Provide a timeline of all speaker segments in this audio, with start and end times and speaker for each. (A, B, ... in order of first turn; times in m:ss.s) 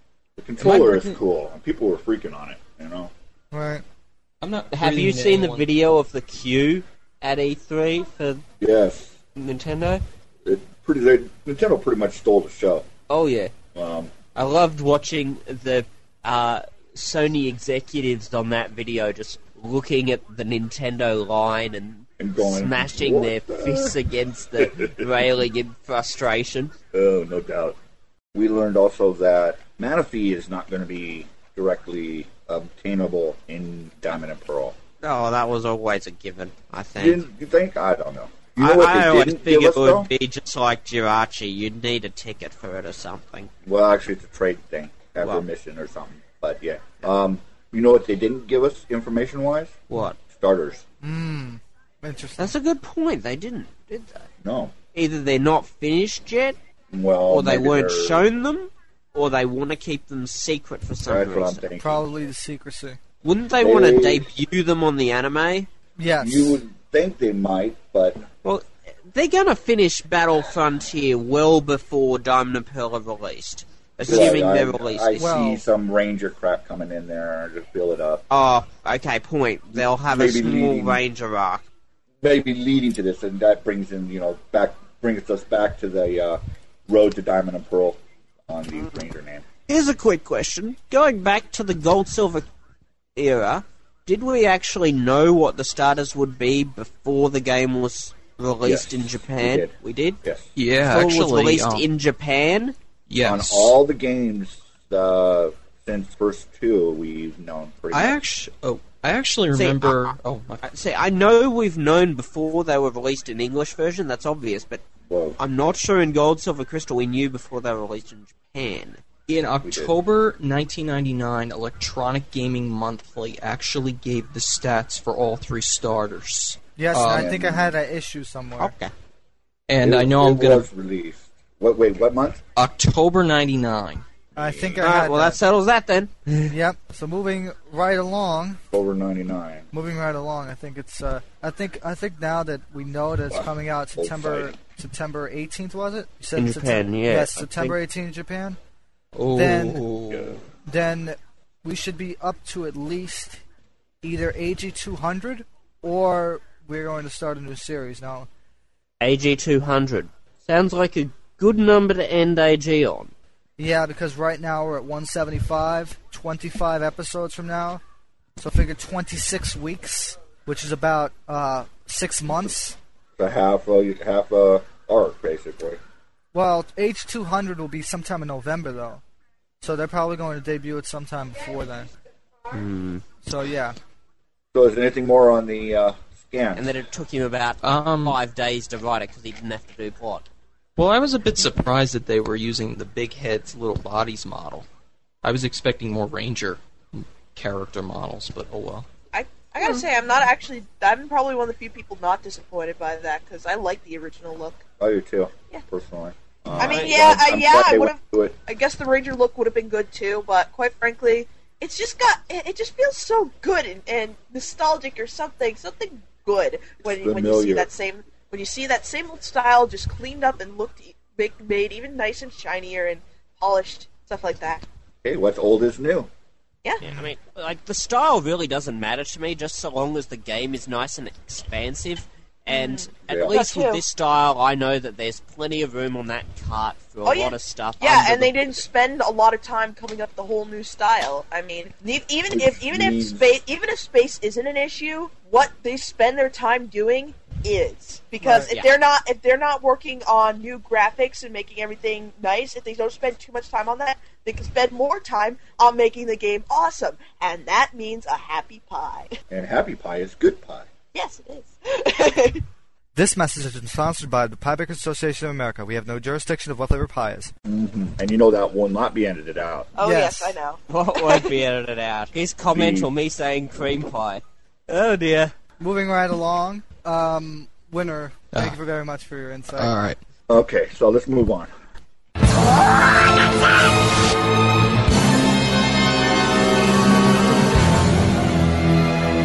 0:00.4-0:03.1 A
0:00.6-0:01.2 B
0:03.5-0:03.8 C
0:04.4-0:05.7 B
0:04.7-0:08.4 D
0:08.6-0:09.2 A
0:09.4-0:10.0 D
0:10.4-0:12.8 A
0:13.1-0:13.5 D
0:13.7-0:14.1 A
0:14.3-0:26.7 D
0:22.2-0:24.0 A
0:24.6-0:25.1 A
0:26.9-0:27.8 A
0:28.3-0:34.8 A
0:35.0-0:37.2 D
0:37.0-0:40.1 A
0:38.6-0:43.5 D
0:43.6-0:50.8 A
0:49.9-0:50.2 D
0:51.0-0:52.5 C
0:52.4-0:54.3 D
0:54.4-0:54.7 A
0:54.9-0:56.6 D
0:56.9-0:58.2 A
0:57.3-1:01.7 D
1:01.0-1:02.1 A
1:01.8-1:03.0 C
1:03.2-1:05.7 D
1:03.6-1:04.3 A
1:06.0-1:06.6 C
1:06.2-1:08.2 A
1:08.4-1:15.3 D
1:14.0-1:18.2 A
1:15.2-1:15.6 C
1:18.3-1:21.7 D
1:19.7-1:21.0 A
1:22.2-1:29.4 A
1:29.7-1:32.5 D
1:33.2-1:40.2 D
1:38.6-1:40.5 A
1:40.6-1:41.8 B
1:40.8-1:42.7 D
1:43.1-1:43.8 B
1:43.2-1:48.2 A
1:47.9-1:50.6 B
1:49.5-1:54.8 D
1:55.1-1:55.4 A
1:55.4-1:59.0 D
1:59.3-2:07.3 B
1:59.6-1:59.9 A
2:06.8-2:08.7 C
2:07.0-2:07.7 A
2:08.6-2:08.9 D
2:09.7-2:10.7 B
2:09.8-2:12.4 A
2:12.6-2:14.0 B
2:14.4-2:15.4 C
2:14.8-2:16.5 D
2:16.5-2:18.6 C
2:18.7-2:19.7 A
2:19.7-2:28.6 C
2:23.3-2:24.5 A
2:26.4-2:27.8 D
2:29.1-2:30.4 B
2:29.3-2:29.8 C
2:30.1-2:30.4 A
2:30.6-2:33.4 C
2:34.0-2:38.3 C
2:39.0-2:43.1 D
2:43.6-2:47.8 C
2:48.4-2:52.8 C
2:53.2-2:55.8 A
2:56.3-2:59.0 C
2:59.6-3:01.9 C
3:02.5-3:03.0 D
3:03.2-3:03.8 C
3:04.5-3:06.7 A
3:06.6-3:10.3 D
3:07.6-3:08.2 B
3:10.8-3:14.6 B
3:15.2-3:18.9 B
3:19.1-3:24.6 E
3:24.8-3:28.4 A
3:26.6-3:44.6 E
3:26.6-3:27.1 D
3:36.8-3:37.7 A
3:45.0-3:46.1 A
3:46.8-3:58.6 D
3:52.5-3:53.8 E
3:53.1-3:53.3 A
3:57.0-4:19.2 E
4:02.3-4:03.3 A
4:08.2-4:08.5 C
4:19.3-4:20.7 A
4:20.9-4:22.4 E
4:22.9-4:27.3 C
4:27.4-4:29.8 A
4:29.8-4:31.3 E
4:29.8-4:30.4 C
4:30.7-4:35.3 D
4:32.5-4:32.9 A
4:35.6-4:39.8 C
4:39.5-4:40.0 B
4:40.3-4:41.5 A